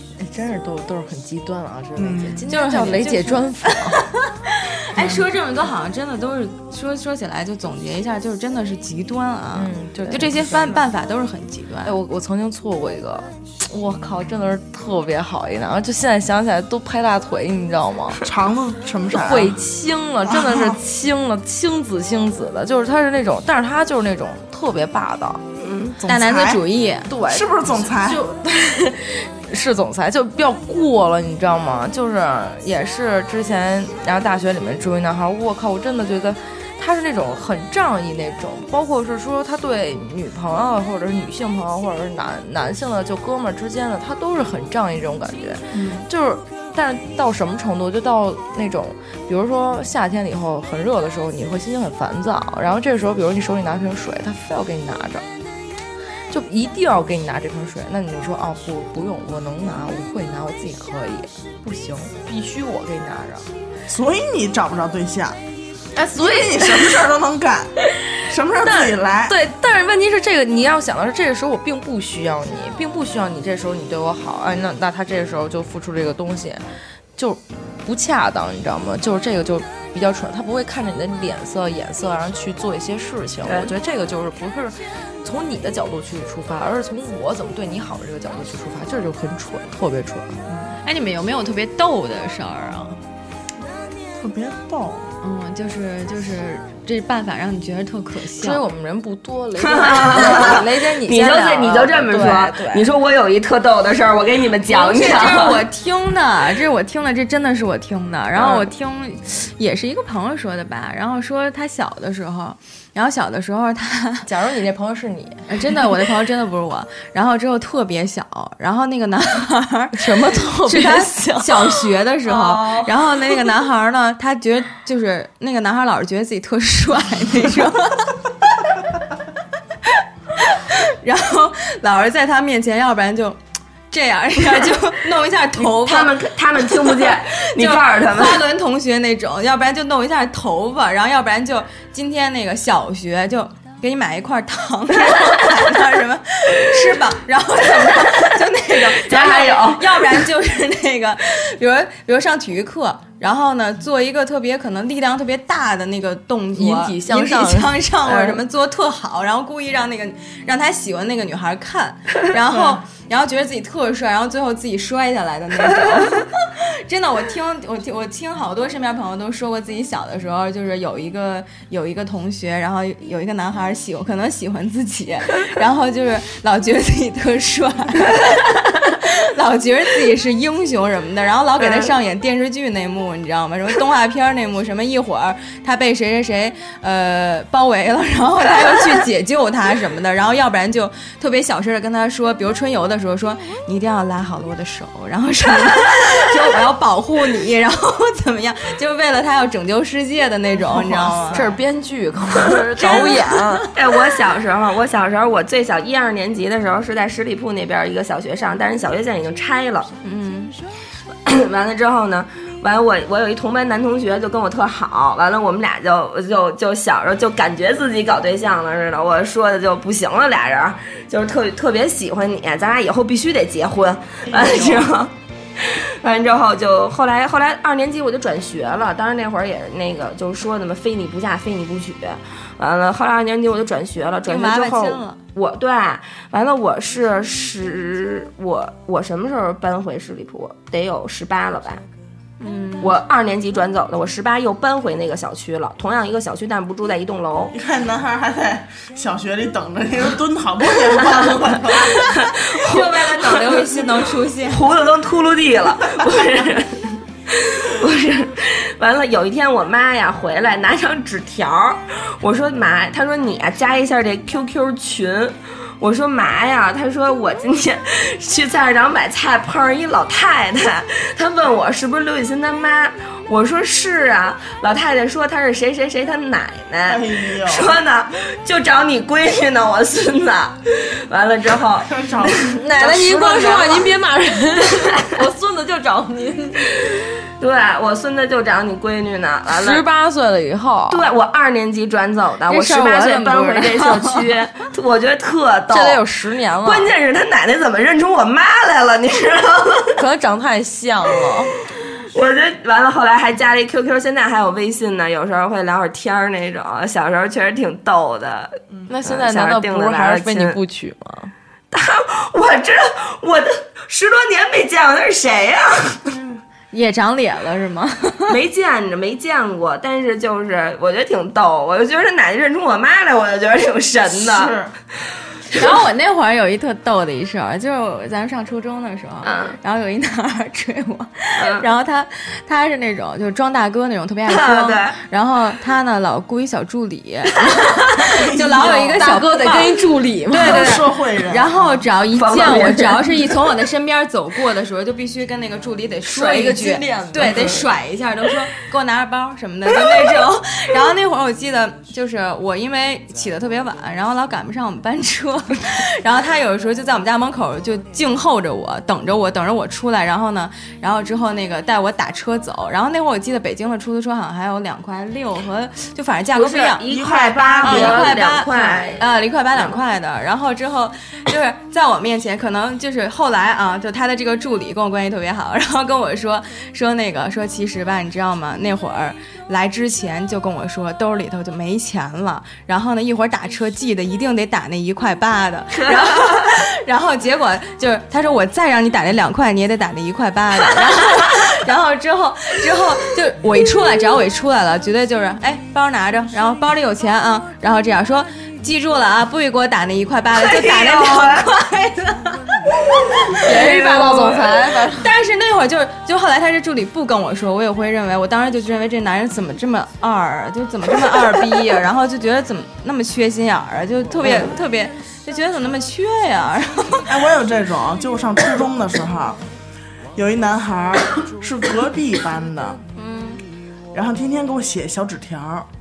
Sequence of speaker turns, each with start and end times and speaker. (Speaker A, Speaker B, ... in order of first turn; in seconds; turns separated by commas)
Speaker A: 0.2-4.1, Speaker B: 2.0-2.5, Speaker C: 2.5-11.9, Speaker A: 9.5-10.9, Speaker A: 11.8-18.2, Speaker B: 18.2-19.6, Speaker A: 19.1-25.4, Speaker B: 20.3-20.8, Speaker D: 25.6-26.0, Speaker B: 26.0-26.6, Speaker C: 26.1-27.1, Speaker A: 27.1-55.2, Speaker B: 27.2-28.2, Speaker B: 45.7-46.1, Speaker A: 56.3-63.5, Speaker B: 63.9-65.4, Speaker A: 65.9-67.1, Speaker B: 66.1-69.3, Speaker A: 68.6-76.6, Speaker A: 77.2-90.4, Speaker D: 83.5-83.7, Speaker C: 90.8-93.0, Speaker B: 94.2-95.1, Speaker C: 95.2-98.6, Speaker A: 98.4-102.9, Speaker D: 99.6-105.6, Speaker C: 104.7-114.3, Speaker D: 108.4-108.7, Speaker A: 114.2-115.9, Speaker C: 115.5-128.2, Speaker A: 119.9-122.9, Speaker C: 130.4-133.4, Speaker C: 133.9-178.4, Speaker D: 135.6-138.4, Speaker D: 148.9-150.2, Speaker A: 156.5-158.4, Speaker B: 162.5-162.8, Speaker C: 178.9-201.5, Speaker D: 181.6-181.9, Speaker B: 200.9-201.4, Speaker A: 201.3-203.7, Speaker D: 202.5-203.2, Speaker C: 202.8-203.7, Speaker D: 203.7-209.9, Speaker C: 210.0-210.5, Speaker D: 211.2-241.8, Speaker B: 224.2-224.9, Speaker C: 234.3-235.2, Speaker C: 242.4-243.0, Speaker D: 242.8-247.6, Speaker B: 247.5-252.3, Speaker D: 251.1-282.6, Speaker C: 252.5-254.7, Speaker B: 276.9-277.8, Speaker B: 281.9-283.8, Speaker A: 282.3-286.7, Speaker D: 286.8-289.8, Speaker A: 289.5-291.1, Speaker D: 290.9-296.0, Speaker C: 292.5-294.2, Speaker A: 295.7-296.9, Speaker D: 296.6-300.0, Speaker A: 299.9-301.5, Speaker D: 302.1-310.6, Speaker A: 308.9-311.3, Speaker D: 311.7-316.1, Speaker B: 316.1-316.4, Speaker C: 316.7-318.3, Speaker D: 318.3-324.6, Speaker B: 324.1-324.7, Speaker C: 325.5-339.7, Speaker D: 329.2-329.6, Speaker D: 331.4-331.6, Speaker D: 334.3-334.9, Speaker B: 338.0-339.0, Speaker A: 338.5-340.8, Speaker C: 340.3-366.8, Speaker B: 340.4-341.8, Speaker D: 342.1-343.4, Speaker A: 346.1-347.6, Speaker D: 366.3-369.0, Speaker B: 366.9-368.1, Speaker C: 367.6-402.6, Speaker D: 385.7-386.6, Speaker D: 400.4-401.5, Speaker D: 403.3-404.6, Speaker A: 403.4-405.1, Speaker C: 403.4-404.4, Speaker C: 405.0-417.1, Speaker B: 417.1-419.4, Speaker B: 420.1-422.8, Speaker C: 422.9-423.4, Speaker B: 423.9-425.7